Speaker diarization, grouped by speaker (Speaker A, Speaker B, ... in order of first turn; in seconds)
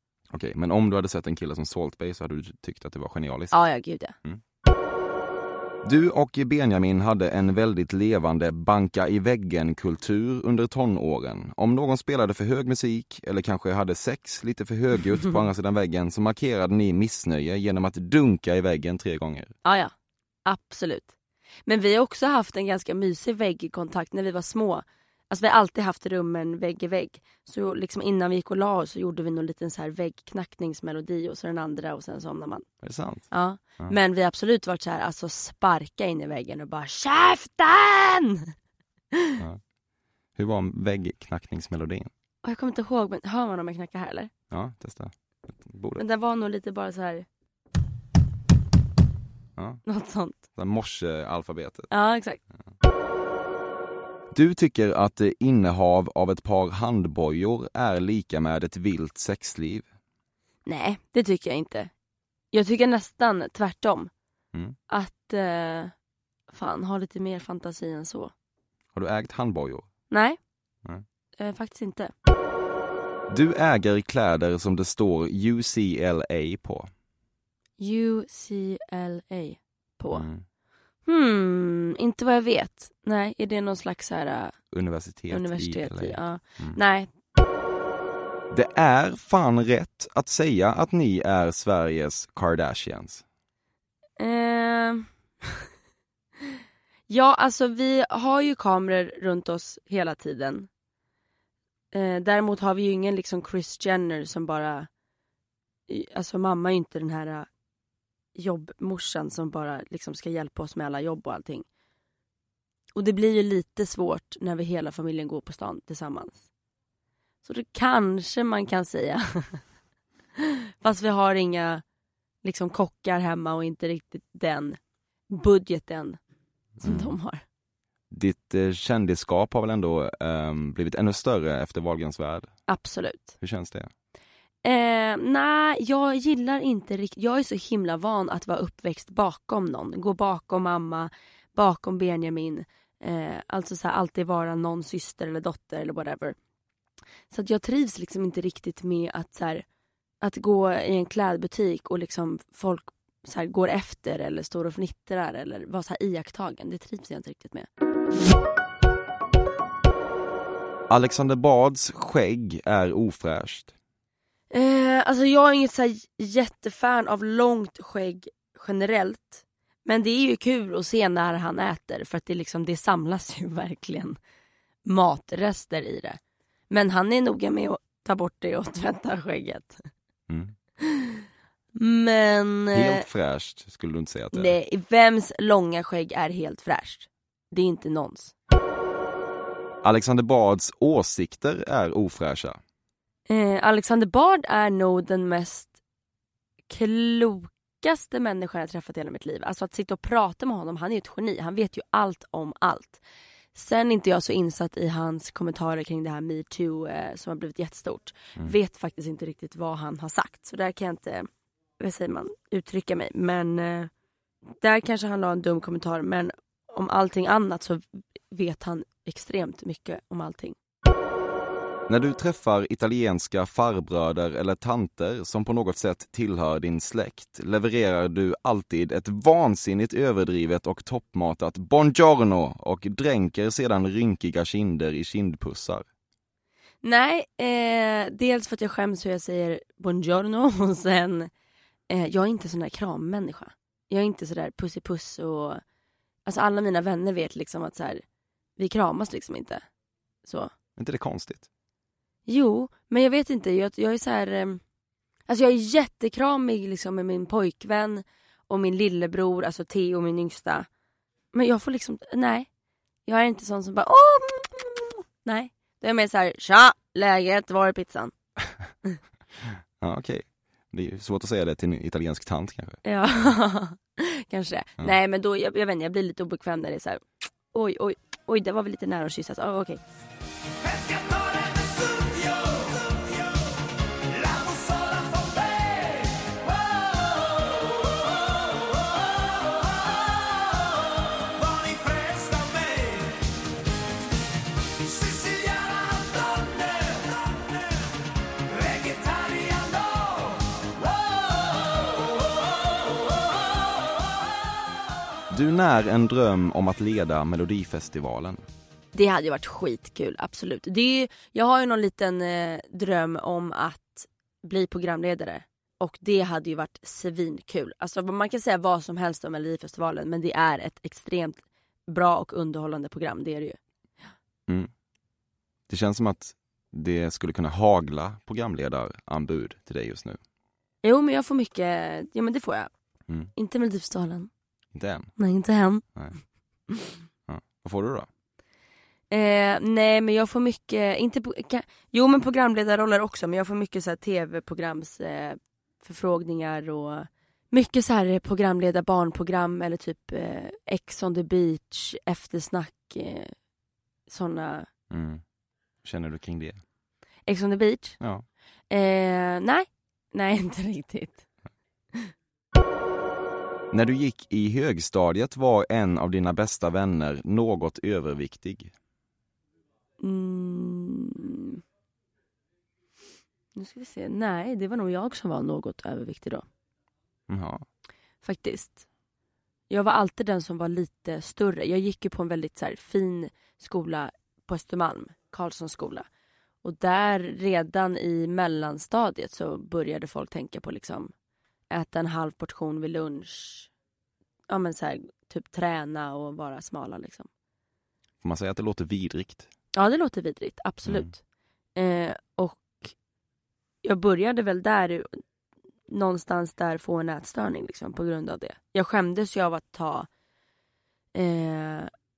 Speaker A: 0.3-3.5, 5.8-19.5, 32.8-33.3, 40.4-42.1, 44.5-46.0, 49.6-49.8, 50.5-51.9, 54.3-59.8, 68.9-69.9, 73.3-76.9, 80.1-80.4, 84.7-86.8, 88.5-93.2, 126.8-127.1, 128.1-132.5, 133.4-133.9, 160.9-163.7, 180.3-180.5, 182.7-184.5, 189.8-192.6, 221.9-235.8, 250.8-251.5, 269.8-272.8, 305.3-308.4, 325.7-330.2, 334.7-335.1, 337.3-338.1, 354.9-355.2, 355.8-356.6, 358.0-358.2, 363.7-368.7, 377.3-377.6, 398.2-399.5
Speaker B: 3.5-4.1, 19.6-19.9, 20.4-21.1, 21.6-32.6, 33.3-38.5, 42.4-44.3, 46.0-47.2, 49.9-50.4, 51.9-52.4, 60.6-61.9, 62.5-64.1, 64.9-65.9, 66.5-68.3, 70.1-70.4, 71.4-72.1, 77.8-80.2, 81.0-84.5, 85.3-87.1, 94.2-95.6, 97.1-100.7, 101.9-104.9, 105.9-107.5, 108.3-111.7, 112.9-116.4, 117.4-119.6, 120.8-121.8, 122.4-126.2, 126.8-127.4, 132.7-133.3, 134.6-146.3, 147.3-149.6, 150.2-157.7, 164.5-174.2, 174.8-176.2, 176.7-179.8, 180.8-181.2, 181.8-183.0, 184.3-188.3, 193.3-195.7, 196.7-203.0, 203.5-211.3, 211.8-213.9, 214.6-220.6, 236.8-241.3, 241.9-245.6, 246.2-248.0, 248.6-249.6, 250.2-250.5, 252.3-254.6, 255.3-260.7, 261.3-262.5, 263.1-268.1, 272.8-279.8, 308.9-323.6, 330.8-332.7, 333.4-334.3, 335.2-335.8, 339.1-353.3, 354.1-354.7, 357.3-358.0, 358.7-361.2, 370.0-371.6, 373.5-376.4, 378.2-378.8, 379.7-386.1, 386.6-391.1, 391.7-393.7, 394.5-397.3, 399.8-401.2, 401.8-402.9, 403.8-405.2, 405.9-410.1, 411.1-411.9